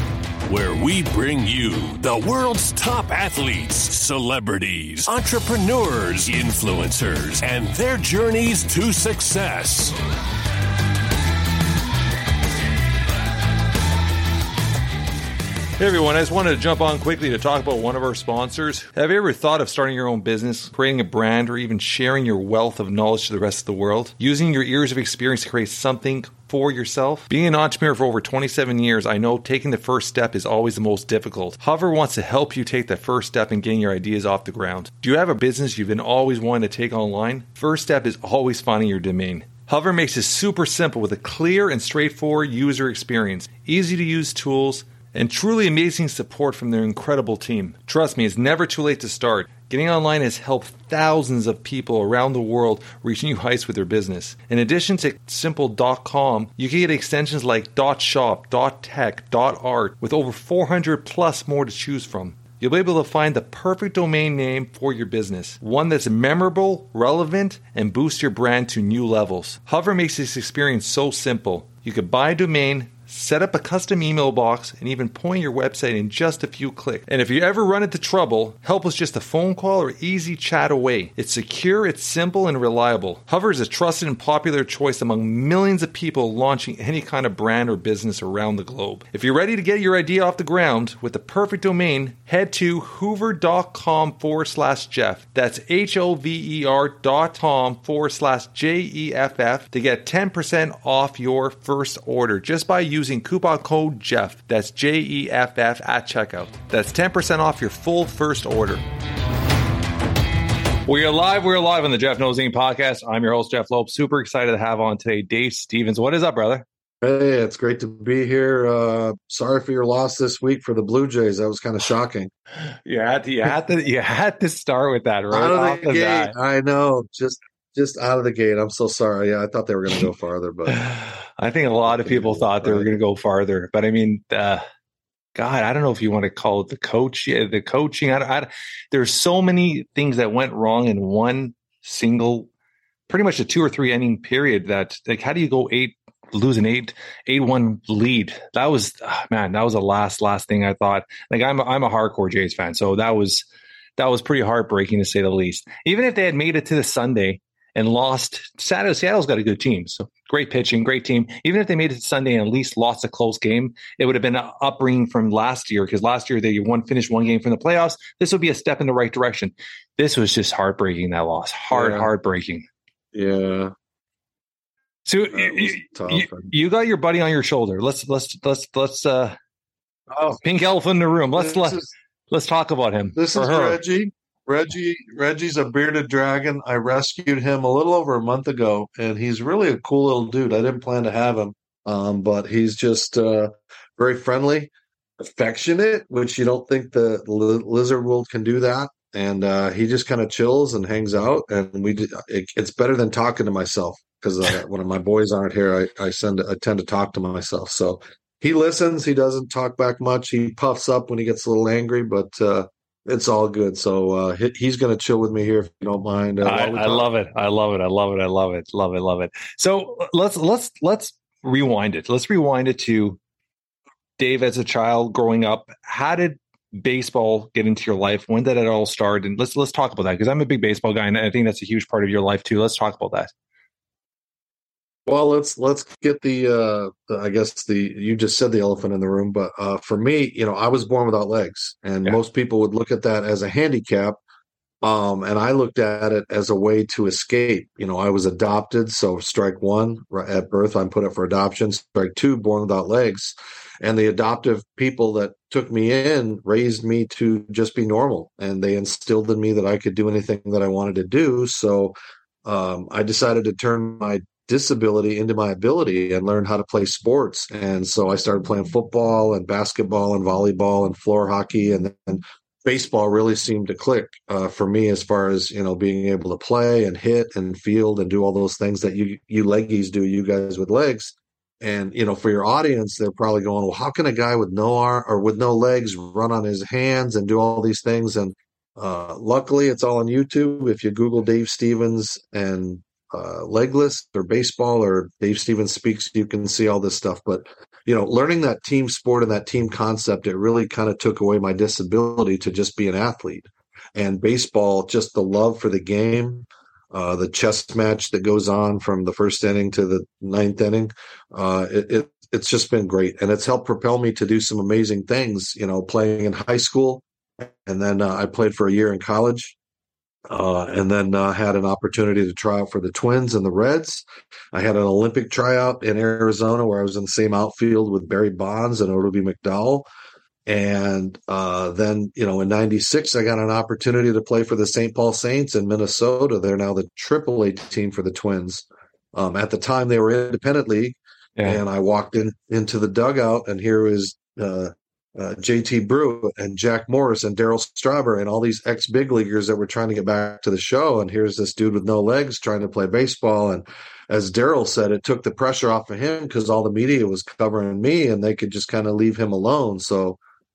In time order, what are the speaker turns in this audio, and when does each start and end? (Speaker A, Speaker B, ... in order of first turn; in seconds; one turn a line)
Speaker A: 0.5-10.0
Speaker B: 15.8-108.8
Speaker B: 110.9-116.7
Speaker C: 117.0-122.3
Speaker B: 122.8-126.3
Speaker C: 125.3-130.8
Speaker B: 130.7-134.6
Speaker C: 131.9-132.9
Speaker B: 135.3-142.5
Speaker B: 143.1-172.6
Speaker C: 171.7-172.1
Speaker C: 173.1-173.7
Speaker B: 175.1-179.4
Speaker C: 175.3-176.5
Speaker C: 180.1-180.4
Speaker B: 180.4-183.8
Speaker C: 181.3-181.9
Speaker C: 183.2-217.1
Speaker B: 216.4-223.2
Speaker B: 224.2-233.3
Speaker C: 235.1-244.2
Speaker C: 244.8-319.6
Speaker C: 320.3-329.9
Speaker C: 330.5-360.2